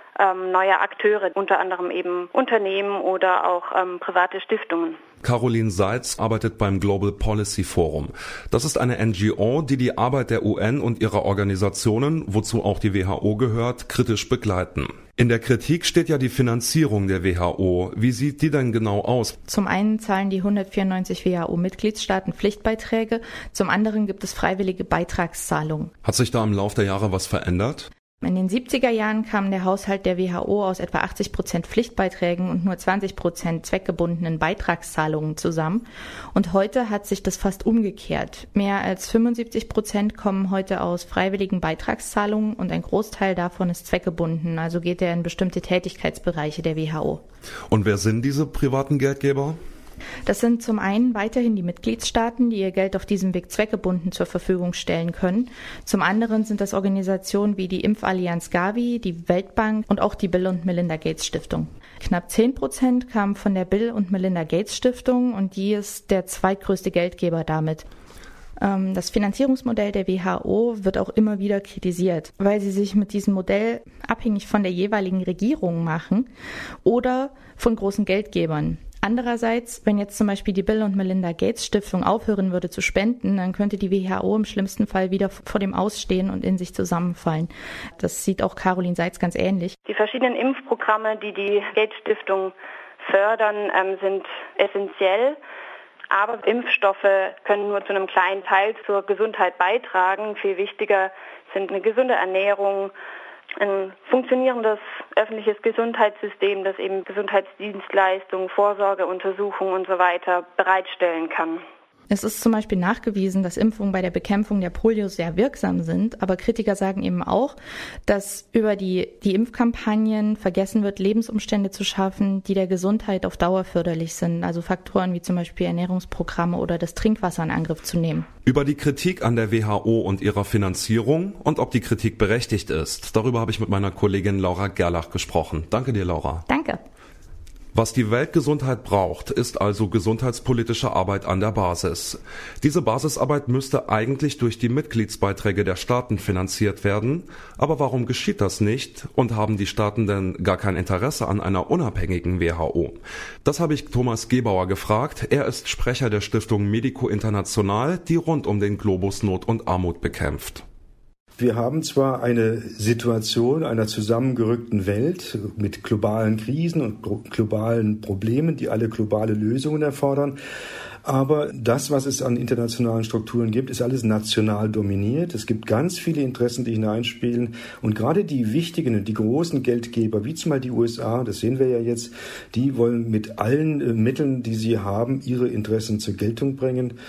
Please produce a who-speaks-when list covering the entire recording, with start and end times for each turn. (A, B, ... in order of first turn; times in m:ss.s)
0:00.2-0:05.0 A
0:05.2-0:19.4 B
0:19.5-0:25.9 C
0:26.0-0:27.9 B
0:28.2-0:47.2 C
0:47.7-0:49.6 B
0:50.2-1:07.8 C
1:08.6-1:16.3 C
1:16.8-1:29.8 C
1:29.9-1:35.4 A
1:36.1-1:42.9 A
1:43.6-1:51.6 A
1:52.1-1:57.5 C
1:58.0-2:08.3 C
2:08.4-2:16.4 B
2:16.5-2:16.8 C
2:17.7-2:40.6 B
2:41.4-2:50.4 D
2:51.0-3:07.0 D